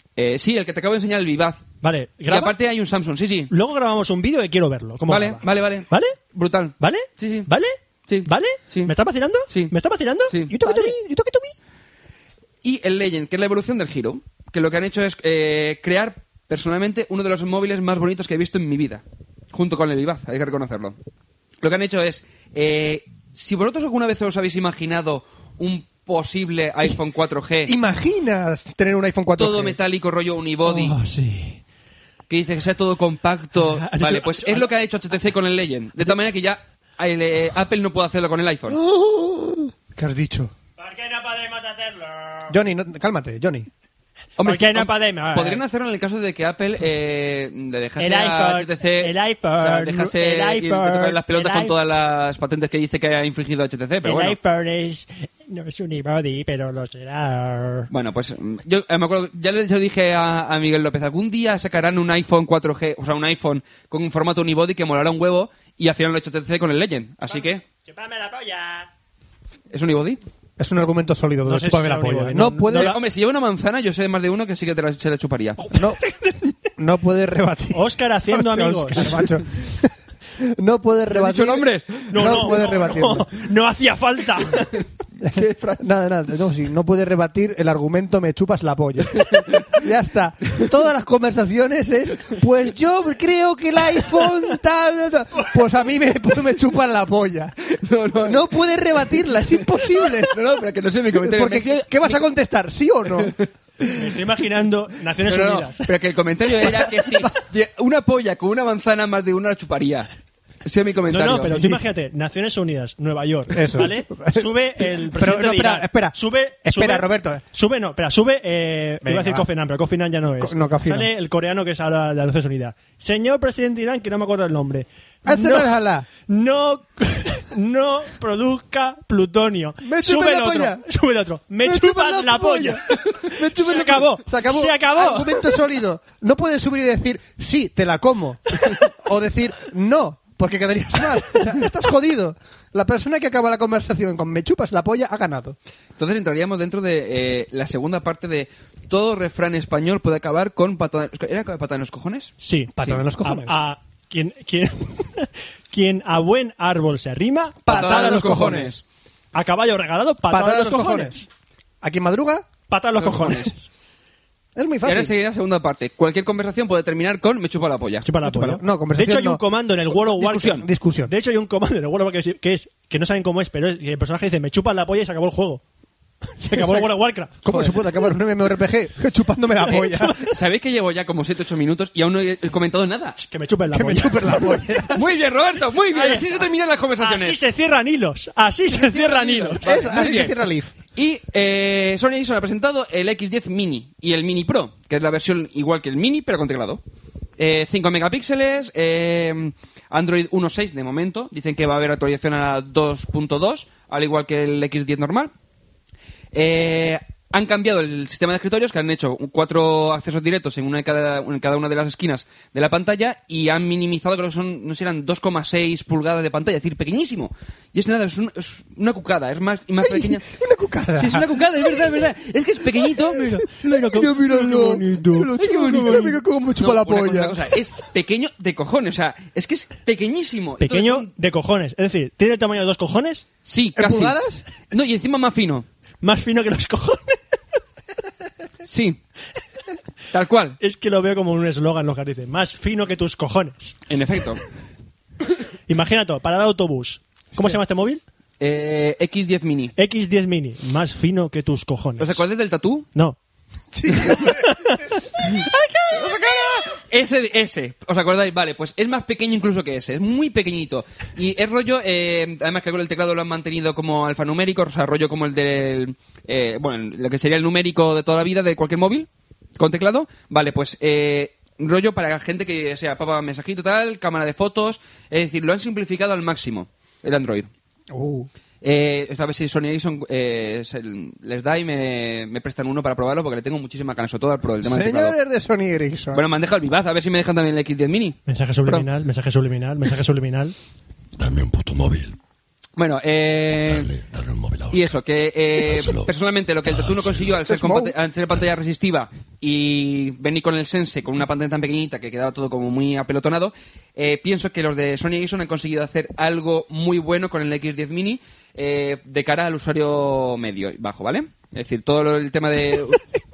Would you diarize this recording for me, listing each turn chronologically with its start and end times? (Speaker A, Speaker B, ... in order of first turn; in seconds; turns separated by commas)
Speaker A: 0.2-1.6, Speaker B: 1.8-2.5, Speaker A: 2.3-3.5, Speaker B: 3.5-6.2, Speaker A: 5.1-7.5, Speaker B: 6.8-11.4, Speaker A: 8.1-8.9, Speaker A: 9.5-9.7, Speaker A: 10.3-10.5, Speaker C: 10.6-11.5, Speaker A: 12.6-20.9, Speaker A: 21.6-27.7, Speaker C: 27.6-29.8, Speaker A: 29.4-30.9, Speaker B: 30.6-31.6, Speaker A: 32.3-38.8, Speaker B: 33.5-34.7, Speaker C: 38.7-40.5, Speaker B: 40.8-42.5, Speaker C: 42.5-43.7, Speaker A: 44.4-54.4, Speaker B: 44.4-45.6, Speaker B: 48.0-51.7, Speaker B: 54.0-57.9, Speaker A: 57.9-67.6, Speaker B: 67.3-68.9, Speaker A: 69.7-70.2, Speaker C: 70.6-73.0, Speaker B: 71.5-73.0, Speaker A: 72.7-75.7, Speaker B: 75.6-76.6, Speaker C: 75.7-76.0, Speaker C: 76.8-83.3, Speaker B: 77.7-79.3, Speaker A: 81.1-82.6, Speaker B: 82.1-84.8, Speaker C: 85.2-97.5, Speaker A: 85.2-85.8, Speaker A: 89.2-89.8, Speaker A: 97.7-98.6, Speaker C: 98.2-100.3, Speaker A: 99.3-102.2, Speaker C: 101.1-103.3, Speaker A: 103.1-104.0, Speaker B: 103.9-105.9, Speaker A: 105.2-110.1, Speaker C: 106.6-107.3, Speaker A: 110.6-111.5, Speaker B: 111.1-135.6, Speaker C: 111.2-111.8, Speaker C: 113.5-117.4, Speaker C: 119.0-119.5, Speaker C: 120.4-121.1, Speaker C: 125.2-126.1, Speaker C: 129.8-130.8, Speaker C: 131.6-145.6, Speaker A: 146.0-153.0, Speaker B: 152.4-158.7, Speaker C: 152.8-153.6, Speaker C: 157.7-158.7, Speaker A: 157.7-158.8, Speaker B: 159.3-161.2, Speaker C: 160.3-161.2, Speaker C: 161.8-162.5, Speaker B: 162.7-163.7, Speaker A: 163.0-163.5, Speaker C: 164.6-165.1, Speaker A: 164.8-168.1, Speaker B: 168.0-175.6, Speaker C: 168.2-169.4, Speaker A: 170.0-170.7, Speaker C: 170.5-171.1, Speaker B: 176.4-177.4, Speaker C: 176.5-176.9, Speaker C: 177.4-180.2, Speaker B: 179.7-180.3, Speaker A: 180.2-183.2, Speaker B: 183.2-184.5, Speaker C: 183.7-185.0, Speaker A: 184.9-187.4, Speaker B: 185.9-186.2, Speaker B: 187.0-189.7, Speaker A: 188.7-190.3, Speaker C: 189.6-190.7, Speaker A: 190.9-196.8, Speaker A: 197.4-205.3, Speaker A: 206.3-220.2, Speaker C: 219.8-222.0, Speaker A: 220.9-223.4, Speaker C: 222.7-227.5, Speaker B: 223.3-226.0, Speaker A: 225.4-231.1, Speaker B: 230.6-233.2, Speaker A: 233.4-235.6, Speaker C: 233.8-234.4, Speaker B: 236.0-237.2, Speaker A: 238.6-239.0, Speaker A: 240.1-240.6, Speaker B: 240.6-243.8, Speaker A: 243.9-244.4, Speaker B: 245.7-248.0, Speaker A: 248.4-249.7, Speaker B: 249.8-252.2, Speaker A: 252.0-252.9, Speaker C: 253.7-254.8, Speaker B: 254.1-255.9, Speaker A: 255.3-277.5, Speaker C: 277.9-278.3, Speaker A: 278.6-285.1, Speaker C: 284.6-286.2, Speaker A: 286.1-288.9, Speaker B: 288.3-290.6, Speaker D: 291.2-292.2, Speaker A: 292.8-293.9, Speaker D: 293.6-295.0, Speaker A: 294.7-313.0, Speaker D: 295.6-296.1, Speaker D: 296.7-297.4, Speaker C: 297.4-297.9